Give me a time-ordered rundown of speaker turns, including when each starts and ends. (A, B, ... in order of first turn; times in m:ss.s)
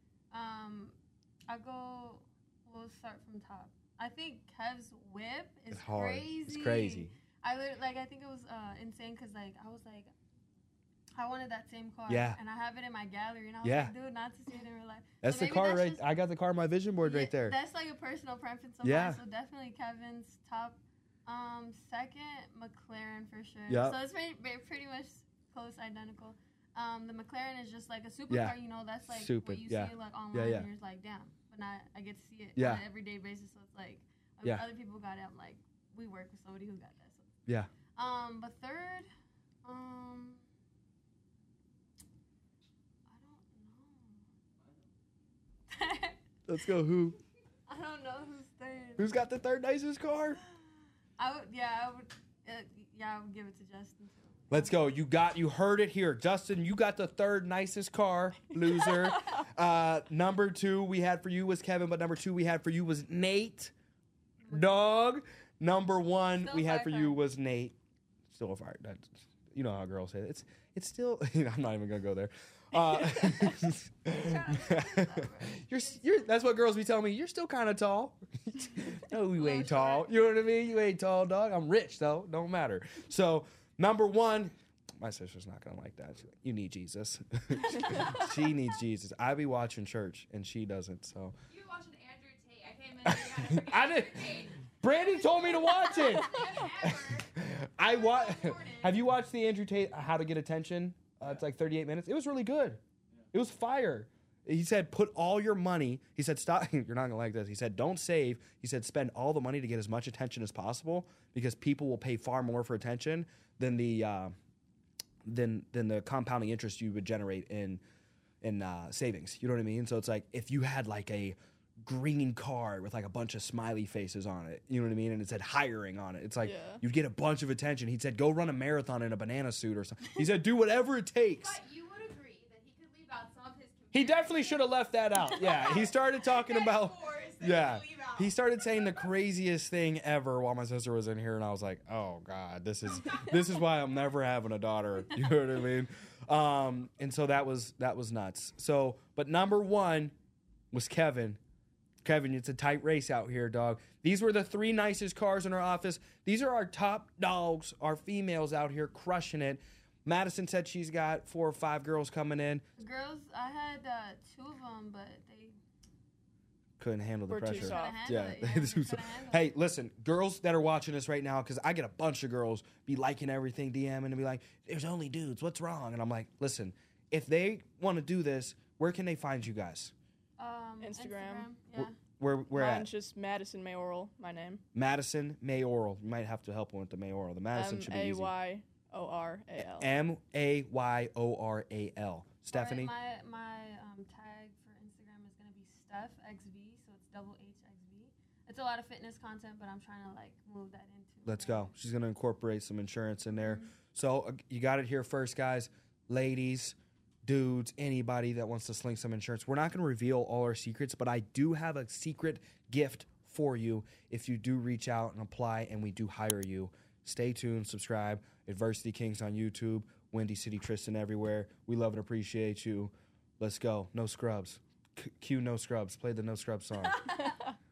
0:00.3-0:01.0 A
0:01.5-0:10.1 A
0:05.7-0:07.1 B
0:11.2-0:16.0 A
0:12.1-0:12.4 B
0:13.6-0:13.9 B
0:15.2-0:17.6 B
0:17.0-0:37.3 A
0:18.8-0:19.2 B
0:23.7-0:24.0 B
0:28.3-0:30.7 B
0:32.6-0:32.8 B
0:38.0-0:39.1 A
0:39.6-0:40.4 A
0:43.1-0:44.2 A
0:45.7-0:46.2 A
0:46.5-0:47.2 B
0:47.7-0:49.2 A
0:49.0-0:50.4 B
0:51.2-0:54.8 A
0:54.5-1:03.7 B
1:04.4-1:04.8 A
1:04.5-1:07.8 B
1:06.4-1:07.2 A
1:08.3-1:31.4 B
1:13.0-1:16.6 A
1:19.4-1:20.5 A
1:27.9-1:28.5 A
1:31.6-1:34.3 A
1:31.7-1:34.5 C
1:33.0-1:42.8 B
1:35.0-1:37.3 A
1:36.4-1:36.7 C
1:37.8-1:39.0 A
1:43.3-1:54.4 B
1:55.2-1:57.8 B
1:58.4-2:11.6 B
2:06.4-2:06.8 D
2:11.7-2:14.2 C
2:13.9-2:30.1 B
2:15.5-2:16.5 A
2:30.7-2:31.4 B
2:32.0-2:42.6 B
2:42.8-2:45.6 A
2:46.8-2:59.9 B
2:47.3-2:48.0 D
2:47.5-2:49.5 A
3:00.4-3:02.0 A
3:00.8-3:01.5 D
3:01.8-3:02.9 B
3:02.5-3:04.6 D
3:04.8-3:08.3 B
3:07.5-3:09.9 D
3:09.8-3:12.9 B
3:12.5-3:21.7 A
3:21.3-3:47.3 B
3:23.3-3:23.7 A
3:46.8-3:47.2 A